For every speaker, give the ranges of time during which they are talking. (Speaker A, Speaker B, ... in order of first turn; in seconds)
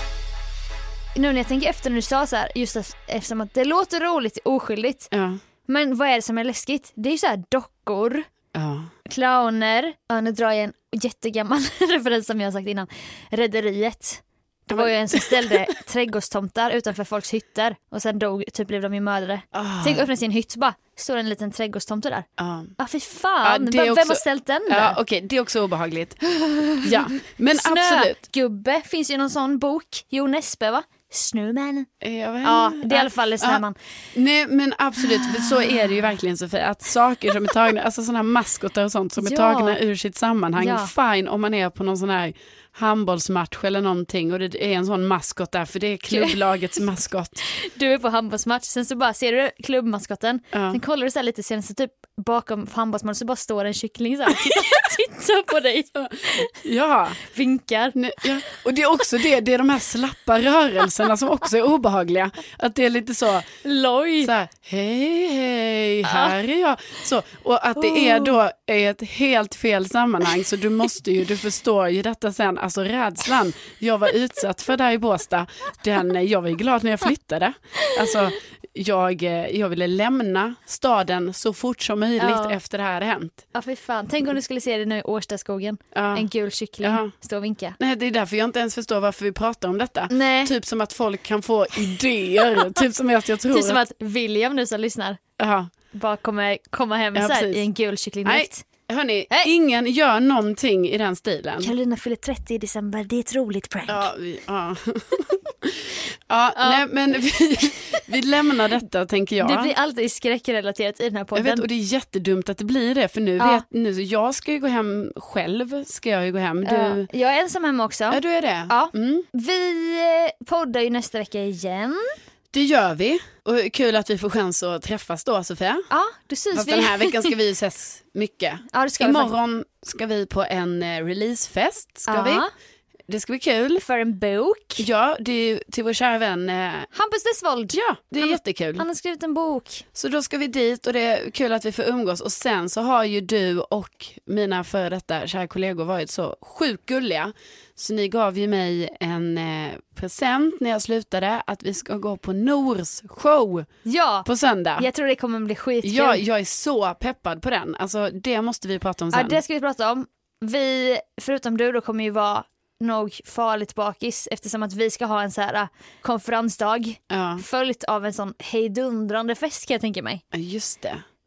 Speaker A: 1.1-5.1, 5.7-8.3, 9.1-25.0, 26.3-31.9, 32.4-33.8, 35.0-36.0, 39.2-39.8, 40.6-40.9, 46.1-46.4, 47.5-56.6, 57.2-58.6, 63.6-64.3, 66.0-66.4, 67.8-68.4, 77.8-78.1, 82.2-82.6, 83.5-87.8, 90.1-90.5, 92.4-92.8, 93.5-95.2, 95.9-98.7, 101.6-104.1, 106.6-106.8, 107.7-108.1, 109.4-111.7, 113.4-113.6, 116.6-122.1, 125.9-127.3, 128.7-129.4, 132.1-132.5, 133.8-134.9, 136.9-139.9, 153.8-156.2, 159.1-170.2
Speaker B: 5.1-5.4, 8.5-8.9, 14.7-15.7, 19.5-20.1, 22.4-22.8, 23.4-26.2, 26.8-28.2, 32.0-47.5, 50.5-50.8, 56.0-57.2, 58.0-63.5, 64.2-83.5, 85.9-86.3, 86.8-87.1, 87.8-93.8, 95.4-95.7, 97.2-97.7, 98.2-101.7, 103.9-109.7, 111.3-117.1, 118.1-119.3, 122.5-125.9, 126.5-132.4, 133.1-133.8, 134.8-136.9, 137.7-138.8, 139.9-153.7, 154.3-154.9, 155.8-159.4, 167.1-167.4, 170.3-171.0